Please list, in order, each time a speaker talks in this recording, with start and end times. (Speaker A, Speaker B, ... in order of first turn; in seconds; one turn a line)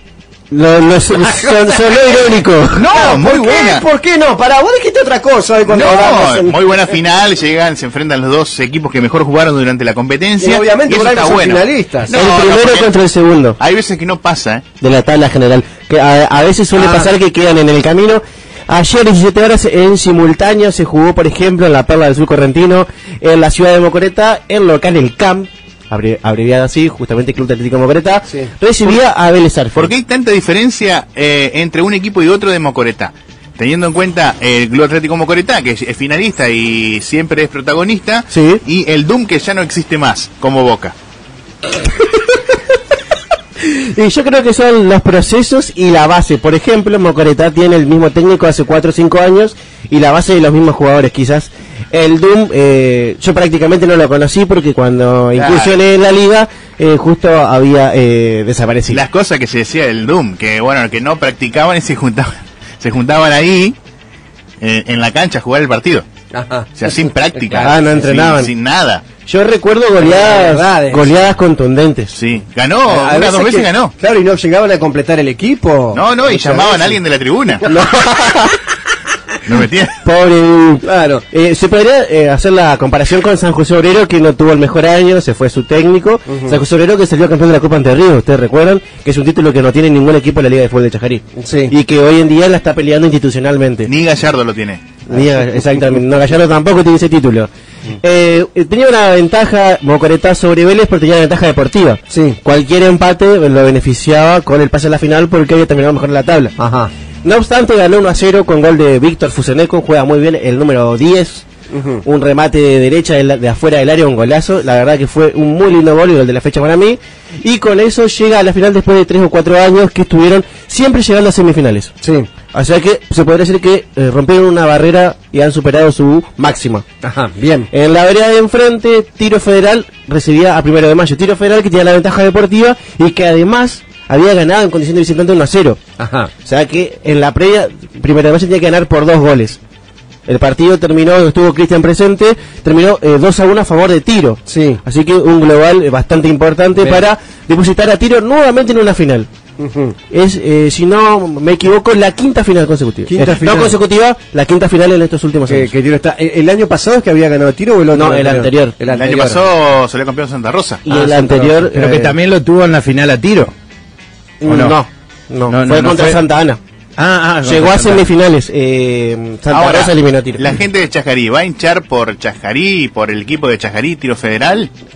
Speaker A: 0.5-2.9
Speaker B: 1.1-7.0
Speaker C: 2.7-3.8
Speaker C: 5.7-12.9
Speaker B: 10.4-12.1
Speaker A: 12.1-13.6
Speaker C: 13.6-14.6
Speaker A: 14.8-29.9
Speaker B: 16.7-17.1
Speaker C: 29.7-40.9
Speaker A: 38.3-38.6
Speaker A: 43.6-59.0
Speaker C: 55.3-55.8
Speaker C: 58.9-63.7
Speaker C: 64.6-66.0
Speaker B: 66.3-67.8
Speaker C: 66.8-69.0
Speaker A: 67.6-68.5
Speaker A: 69.2-72.1
Speaker B: 70.0-71.1
Speaker C: 72.1-73.9
Speaker B: 72.9-77.0
Speaker C: 75.9-77.6
Speaker B: 77.6-78.5
Speaker A: 77.7-78.5
Speaker C: 79.5-80.0
Speaker A: 80.0-93.9
Speaker B: 80.8-81.2
Speaker B: 86.3-86.6
Speaker B: 91.4-91.7
Speaker C: 93.9-94.8
Speaker A: 95.1-97.5
Speaker B: 95.1-95.6
Speaker A: 98.0-106.5
Speaker B: 102.1-102.4
Speaker B: 106.6-106.9
Speaker A: 107.2-111.4
Speaker B: 111.7-112.0
Speaker A: 112.0-121.9
Speaker B: 122.0-122.3
Speaker A: 122.5-126.8
Speaker B: 127.0-127.7
Speaker A: 127.7-135.8
Speaker B: 136.0-136.3
Speaker A: 136.4-139.6
Speaker A: 140.3-149.3
Speaker B: 144.4-144.8
Speaker B: 146.8-147.0
Speaker B: 149.6-149.9
Speaker A: 150.1-155.7
Speaker B: 153.1-153.8
Speaker B: 155.5-159.4
Speaker A: 157.9-158.7
Speaker C: 158.9-160.8
Speaker A: 160.8-162.1
Speaker B: 160.9-161.9
Speaker D: 161.3-163.5
Speaker A: 164.4-166.6
Speaker D: 164.4-164.8
Speaker D: 165.5-166.2
Speaker D: 167.0-168.1
Speaker A: 167.4-170.5
Speaker C: 169.5-174.7